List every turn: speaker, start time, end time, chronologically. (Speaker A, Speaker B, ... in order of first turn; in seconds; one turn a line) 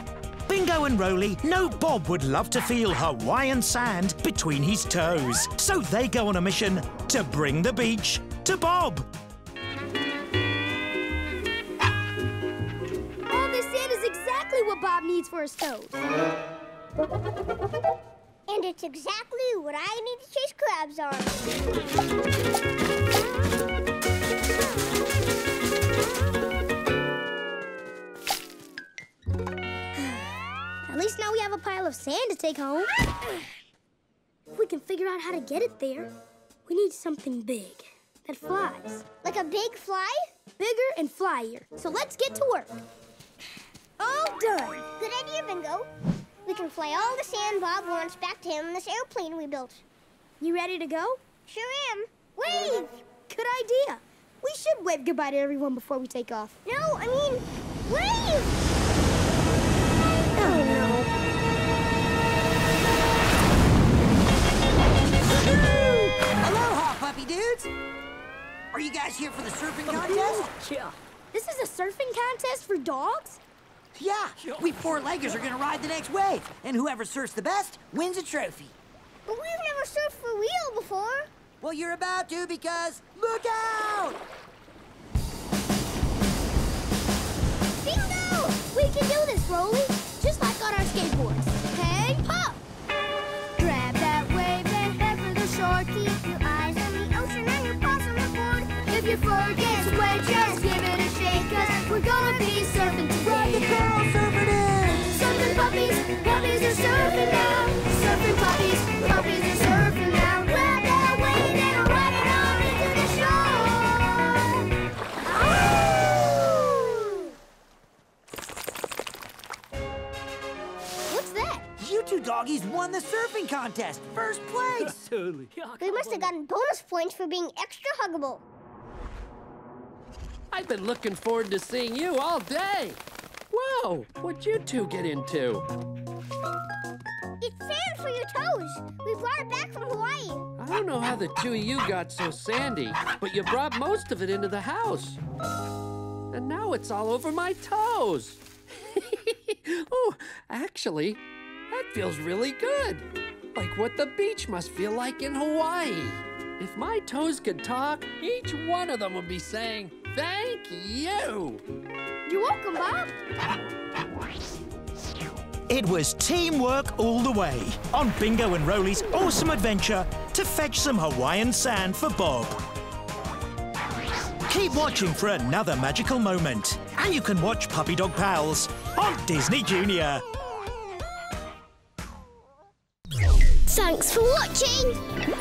Speaker A: 0.5-9.1
Speaker B: 13.3-16.0
Speaker C: 18.5-21.4
Speaker B: 30.0-30.2
Speaker B: 30.8-32.9
Speaker B: 34.5-36.1
Speaker B: 36.6-39.1
Speaker C: 39.2-40.3
Speaker B: 40.6-42.7
Speaker B: 44.0-44.8
Speaker C: 45.0-45.9
Speaker C: 46.4-49.8
Speaker B: 50.4-51.2
Speaker C: 51.5-53.0
Speaker B: 53.3-56.6
Speaker C: 56.6-58.6
Speaker B: 60.4-60.7
Speaker C: 60.4-61.1
Speaker D: 65.3-67.7
Speaker D: 68.7-70.5
Speaker B: 69.9-73.4
Speaker D: 73.9-78.7
Speaker C: 79.3-81.3
Speaker D: 81.6-84.2
Speaker C: 87.8-88.5
Speaker B: 88.5-92.3
Speaker B: 93.5-96.1
Speaker C: 96.0-98.7
Speaker B: 98.7-103.8
Speaker C: 99.6-100.7
Speaker C: 101.3-101.8
Speaker D: 103.2-105.1
Speaker B: 105.1-114.2
Speaker B: 116.2-116.5
Speaker B: 121.1-121.6
Speaker D: 121.8-125.0
Speaker E: 125.0-126.1
Speaker C: 125.8-128.4
Speaker B: 125.9-126.3
Speaker E: 130.5-133.0
Speaker E: 133.5-135.6
Speaker C: 137.4-140.5
Speaker E: 140.6-145.2
Speaker E: 146.3-161.6
Speaker B: 162.2-163.2
Speaker A: 165.7-172.6
Speaker A: 174.5-180.2
Speaker C: 183.7-185.0